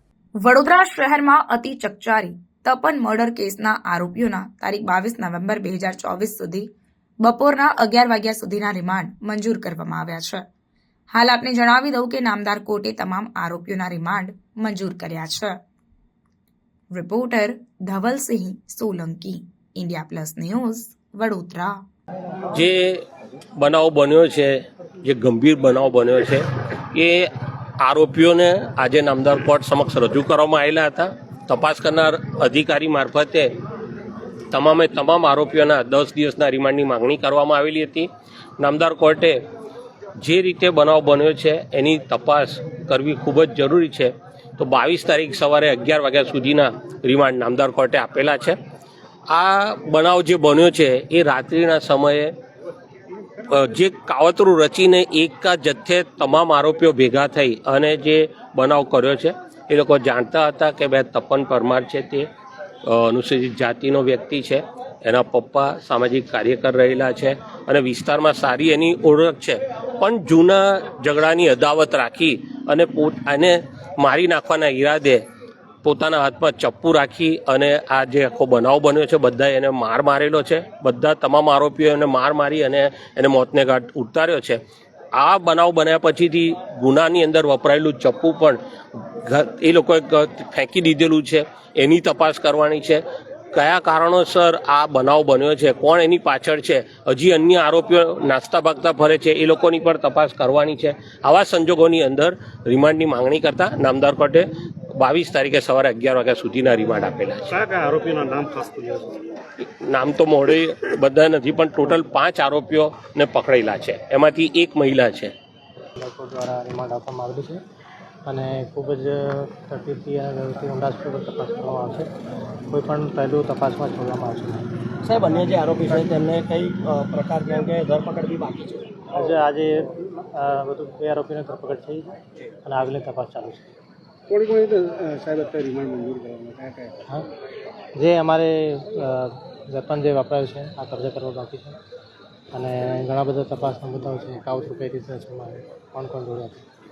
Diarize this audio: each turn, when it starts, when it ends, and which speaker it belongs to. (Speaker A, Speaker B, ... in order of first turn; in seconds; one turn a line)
Speaker A: 0.4-6.7
Speaker A: 7.2-10.4
Speaker A: 11.1-15.6
Speaker A: 16.9-21.8
Speaker B: 22.5-23.0
Speaker B: 23.6-33.5
Speaker B: 34.5-39.4
Speaker B: 40.2-48.6
Speaker B: 49.3-52.3
Speaker B: 53.5-62.3
Speaker B: 62.8-75.2
Speaker B: 75.8-84.6
Speaker B: 85.1-107.7
Speaker C: 107.7-109.2
Speaker B: 109.6-115.3
Speaker D: 116.0-117.6
Speaker D: 118.2-122.1
Speaker D: 122.7-124.7
Speaker E: 125.0-129.0
Speaker D: 129.1-133.7
Speaker C: 134.3-136.9
Speaker D: 137.9-141.8
Speaker D: 142.5-146.6